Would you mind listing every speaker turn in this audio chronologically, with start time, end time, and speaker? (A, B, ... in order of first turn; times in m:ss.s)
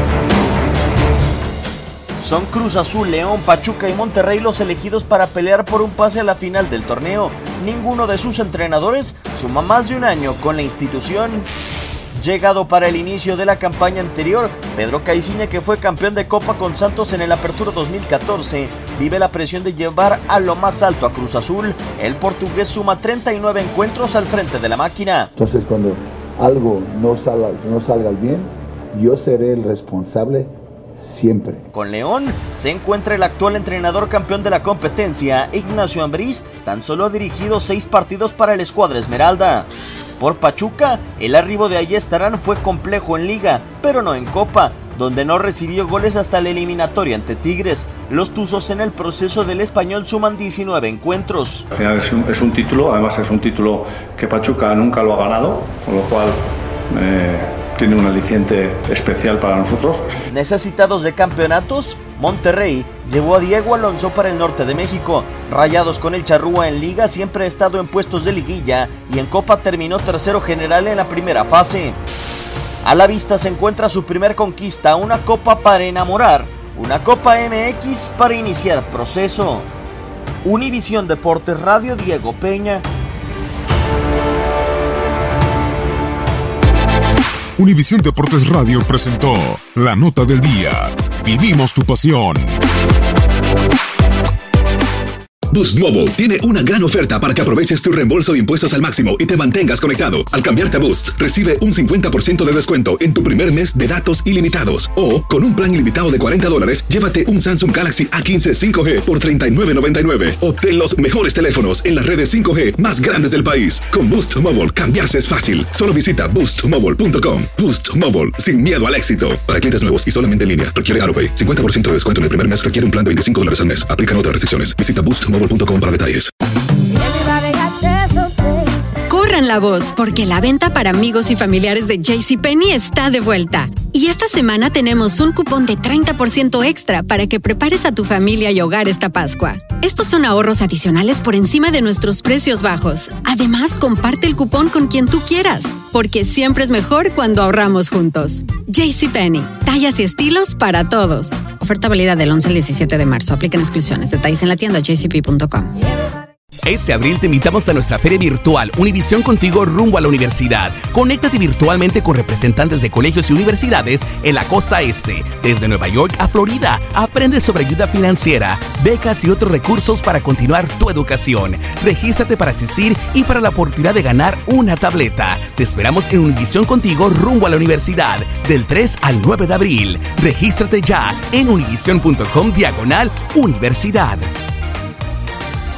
0:02.2-0:11.5 A
0:12.1-0:25.3 A
0:25.4-0:31.6 B
0:31.7-0:51.7 A
0:51.8-0:56.4 C
0:57.0-1:00.1 C
1:00.3-1:12.0 A
1:12.8-1:19.7 A
1:20.4-1:22.9 A
1:27.6-1:32.5 D
1:35.5-2:06.3 E
2:09.1-2:35.7 F
2:36.6-3:04.3 G